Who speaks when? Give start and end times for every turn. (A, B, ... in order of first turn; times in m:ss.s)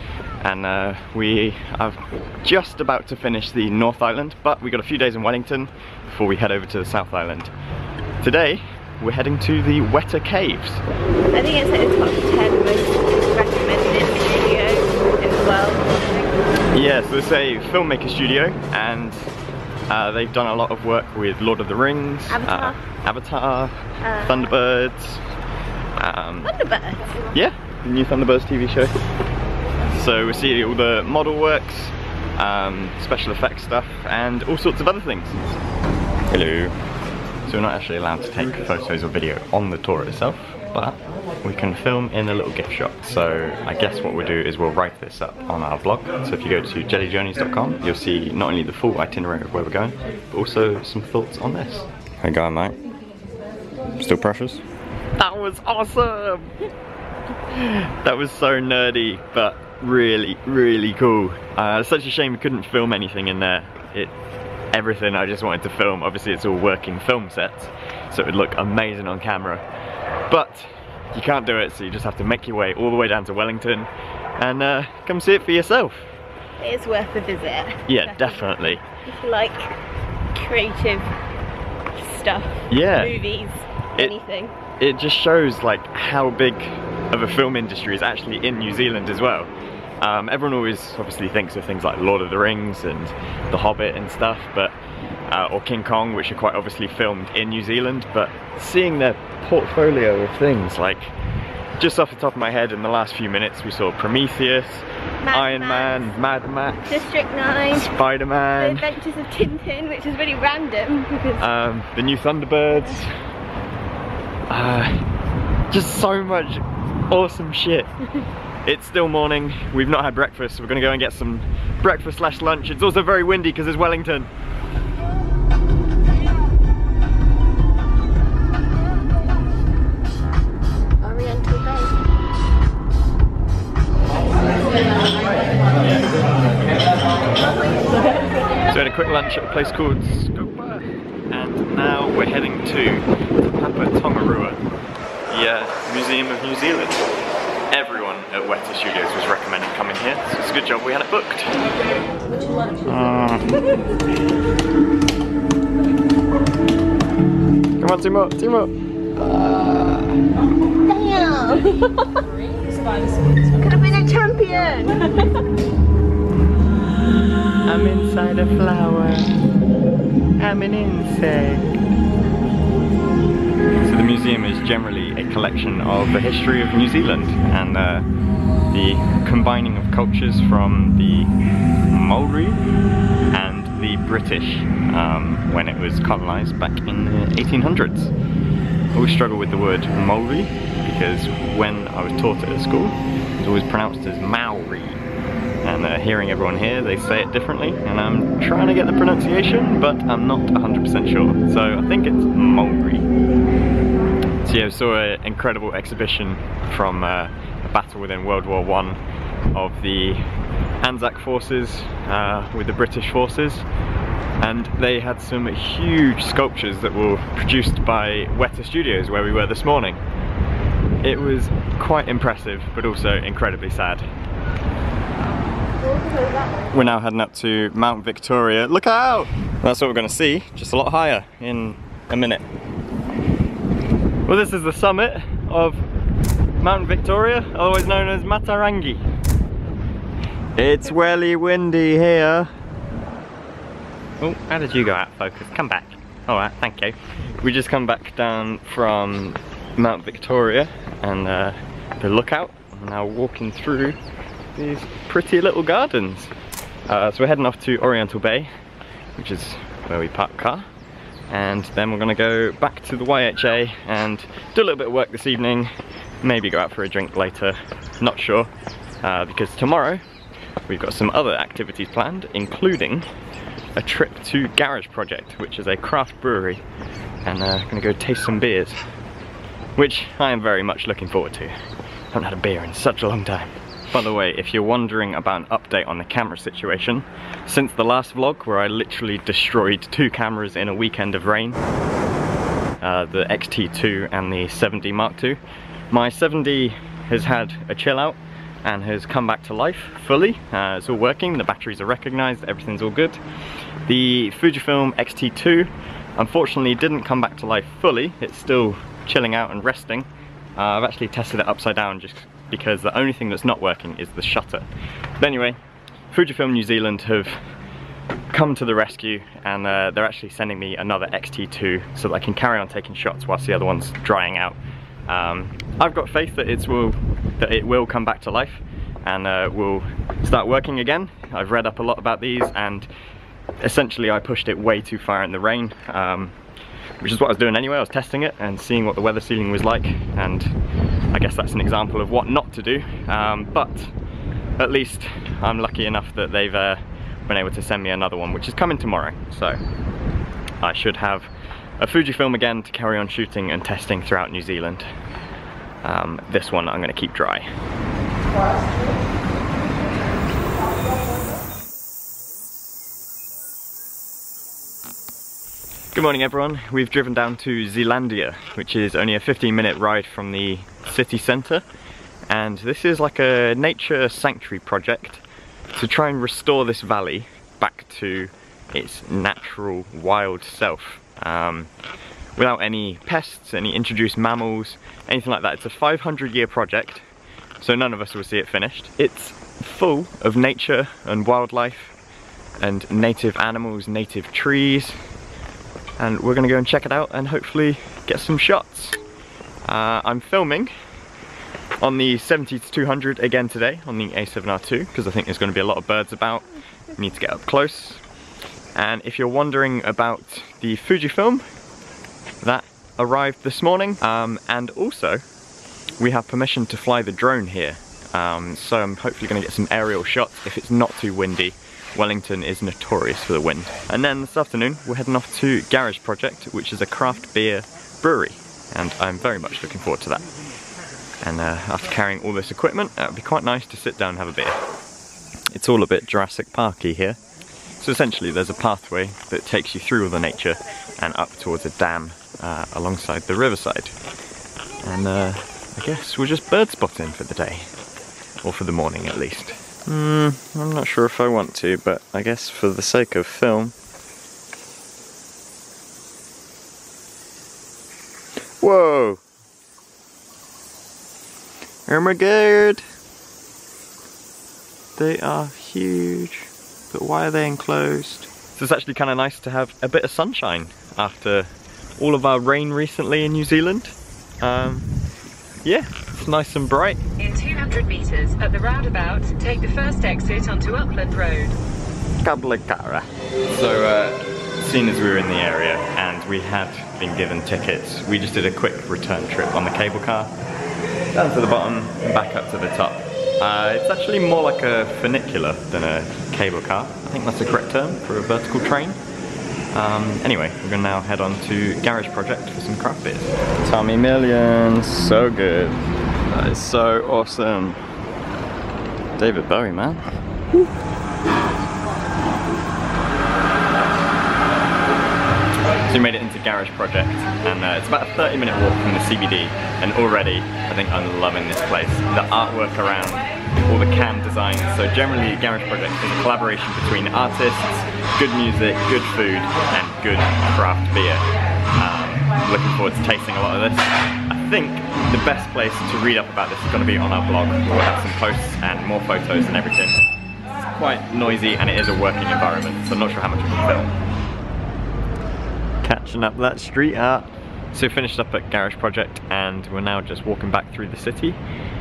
0:00.4-0:07.5 A
0:08.2-0:10.8 A
0:11.3-0:16.4 B
0:16.7-0:19.2 A
0:19.9-0:25.2 A
0:22.3-0:22.8 B
0:24.0-0:24.5 B
0:26.0-0:26.5 A
0:26.4-0:27.2 B
0:27.3-0:28.9 A
0:29.9-0:35.5 A
0:36.3-0:36.7 A
0:37.5-0:52.8 A
0:53.9-0:54.6 A
0:55.2-0:56.5 A
0:57.4-1:04.1 A
1:04.7-1:09.6 A
1:10.3-1:16.1 A
1:16.6-1:18.4 B
1:17.9-1:18.8 A
1:19.0-1:19.8 B
1:20.3-1:21.1 B
1:21.9-1:24.5 B
1:22.7-1:23.2 A
1:24.8-1:34.7 A
1:35.3-1:41.1 A
1:41.8-1:47.1 A
1:45.2-1:46.1 B
1:46.8-1:47.9 B
1:47.7-1:49.0 A
1:48.6-1:51.5 B
1:51.4-1:53.2 A
1:54.5-1:55.1 A
1:55.7-1:57.9 A
1:58.6-2:04.3 A
2:11.0-2:11.9 B
2:18.7-2:24.6 A
2:25.3-2:27.0 A
2:27.7-2:31.6 A
2:32.8-2:33.7 A
2:37.8-2:40.2 A
2:40.8-2:42.0 B
2:43.5-2:45.1 B
2:47.6-2:49.3 A
2:50.4-2:51.7 A
2:53.8-2:58.1 A
2:58.7-3:01.3 A
3:01.9-3:02.6 A
3:03.3-3:08.1 A
3:08.9-3:15.0 A
3:15.6-3:23.0 A
3:24.4-3:29.0 A
3:29.5-3:30.2 A
3:30.8-3:33.6 A
3:34.4-3:40.0 A
3:41.0-3:44.0 A
3:46.7-3:52.5 A
3:54.3-3:55.8 A
3:56.6-3:59.1 A
4:00.6-4:02.5 A
4:04.2-4:14.0 A
4:14.5-4:16.3 A
4:16.9-4:18.5 A
4:19.2-4:20.7 A
4:21.3-4:25.7 A
4:26.2-4:28.5 A
4:29.0-4:30.0 A
4:30.6-4:33.1 A
4:33.8-4:36.6 A
4:37.2-4:38.8 A
4:39.8-4:41.5 A
4:42.1-4:51.6 A
4:52.8-4:55.4 A
4:55.9-5:03.2 A
5:03.8-5:14.7 A
5:15.2-5:15.6 A
5:16.1-5:17.4 A
5:18.3-5:32.9 A
5:33.6-5:36.3 A
5:37.0-5:40.5 A
5:41.1-5:43.9 A
5:44.6-5:49.6 A
5:50.6-5:54.8 A
5:55.8-5:57.5 A
6:05.9-6:11.6 A
6:12.3-6:21.7 A
6:22.4-6:27.0 A
6:27.6-6:31.9 A
6:32.6-6:35.0 A
6:36.0-6:39.0 A
6:39.6-6:40.7 A
6:41.8-6:48.0 A
6:48.7-6:51.4 A
6:52.4-6:55.2 A
6:56.0-7:10.2 A
7:11.2-7:14.6 A
7:15.5-7:17.2 A
7:17.8-7:23.9 A
7:24.8-7:27.7 A
7:28.4-7:33.7 A
7:38.6-7:39.2 A
7:41.9-7:42.8 A
7:45.0-7:54.9 A
7:55.6-7:57.0 A
7:57.2-8:01.6 C
8:02.2-8:10.3 A
8:11.1-8:19.0 A
8:19.7-8:27.8 A
8:29.2-8:30.1 A
8:33.7-8:34.0 A
8:35.9-8:51.2 A
8:51.8-9:00.0 A
9:00.7-9:03.9 A
9:05.8-9:11.4 A